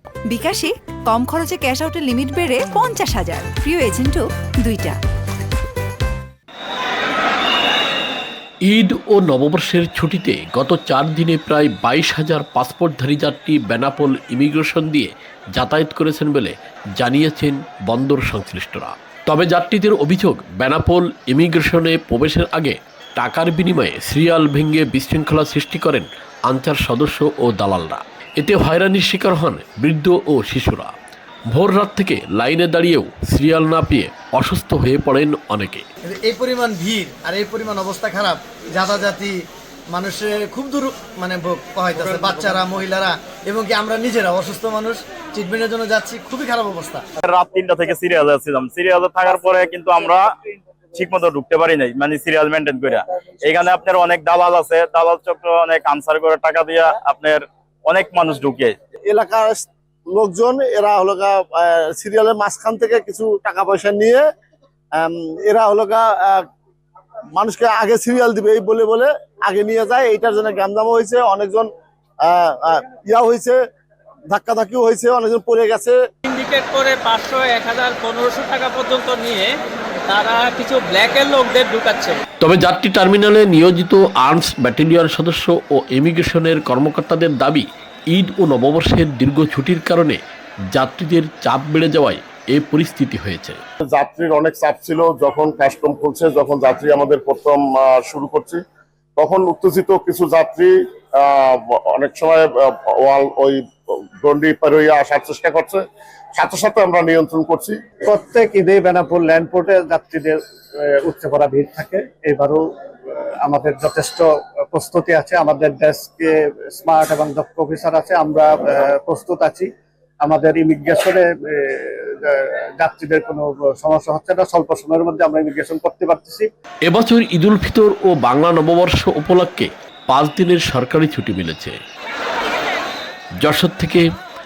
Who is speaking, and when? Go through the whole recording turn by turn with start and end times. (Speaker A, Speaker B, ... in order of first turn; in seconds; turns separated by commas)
Speaker A: 0.2-5.0, Speaker B: 8.6-30.9, Speaker B: 31.5-35.8, Speaker C: 36.1-39.3, Speaker C: 39.9-47.0, Speaker D: 42.0-42.6, Speaker D: 47.2-50.2, Speaker D: 50.9-58.8, Speaker E: 59.1-64.2, Speaker E: 65.0-66.4, Speaker E: 67.3-71.7, Speaker E: 72.2-73.6, Speaker E: 74.3-76.0, Speaker F: 76.3-79.5, Speaker F: 80.1-82.2, Speaker B: 82.4-90.2, Speaker B: 90.7-93.6, Speaker G: 93.9-98.6, Speaker G: 99.2-103.6, Speaker G: 104.2-107.8, Speaker H: 108.1-112.6, Speaker H: 113.4-119.7, Speaker H: 120.2-126.5, Speaker B: 126.8-131.8, Speaker B: 133.4-134.0